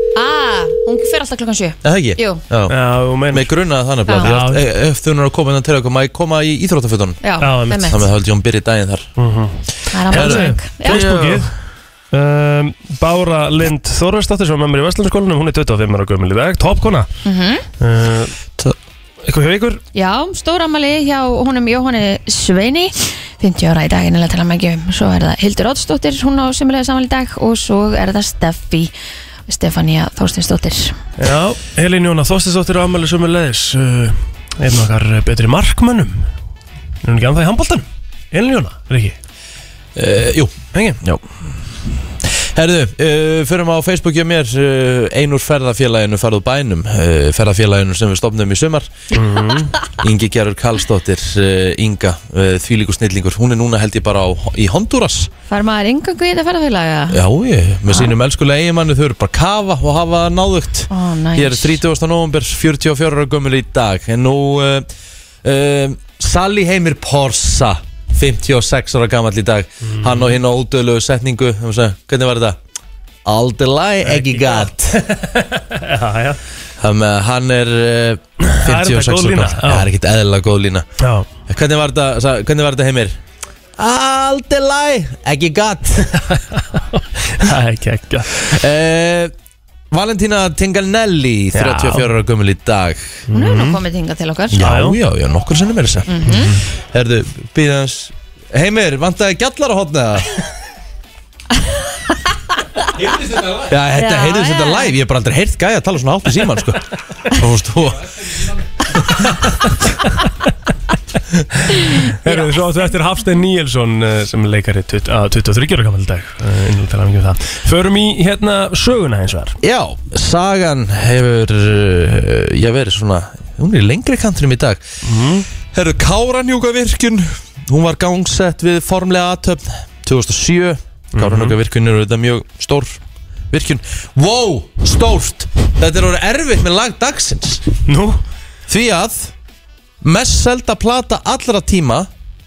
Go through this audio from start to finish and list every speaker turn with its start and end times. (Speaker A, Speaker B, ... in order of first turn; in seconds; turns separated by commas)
Speaker A: 0.1-2.4, Speaker B: 1.8-2.8, Speaker C: 2.7-3.5, Speaker B: 3.3-7.2, Speaker A: 4.1-4.3, Speaker C: 4.2-4.6, Speaker A: 7.2-8.0, Speaker C: 7.4-8.0, Speaker B: 7.9-9.1, Speaker C: 9.2-9.6, Speaker A: 9.9-11.1, Speaker C: 10.1-11.5, Speaker B: 10.1-11.5, Speaker C: 12.1-17.1, Speaker A: 17.2-17.6, Speaker C: 17.8-18.3, Speaker C: 19.2-19.8, Speaker A: 19.9-28.9, Speaker A: 29.5-31.0, Speaker C: 31.2-36.3, Speaker C: 37.0-39.2, Speaker B: 40.0-41.3, Speaker C: 40.7-41.0, Speaker B: 42.4-48.9, Speaker C: 49.1-49.7, Speaker B: 50.0-55.3, Speaker A: 55.5-57.2, Speaker B: 57.1-64.9, Speaker A: 60.9-61.8, Speaker B: 65.4-72.6, Speaker C: 69.9-70.3, Speaker B: 73.2-75.0, Speaker C: 74.0-76.4, Speaker B: 76.8-80.9, Speaker C: 78.5-79.9, Speaker C: 81.0-81.3, Speaker B: 81.5-83.2, Speaker B: 83.8-86.2, Speaker C: 86.3-88.4, Speaker B: 88.4-89.3, Speaker B: 89.9-93.2, Speaker C: 91.5-92.1, Speaker C: 93.3-93.8, Speaker A: 93.3-94.6, Speaker B: 94.5-96.2, Speaker C: 94.6-95.0, Speaker A: 96.1-96.5, Speaker C: 96.3-96.5, Speaker B: 96.9-100.4, Speaker B: 103.5-108.6, Speaker A: 103.9-104.9, Speaker C: 111.7-119.6, Speaker A: 112.1-112.6, Speaker B: 119.6-124.8, Speaker C: 125.0-125.5, Speaker B: 125.7-133.0, Speaker C: 131.1-131.6, Speaker B: 133.5-137.6, Speaker C: 137.9-138.2, Speaker B: 138.7-139.3, Speaker B: 140.0-142.1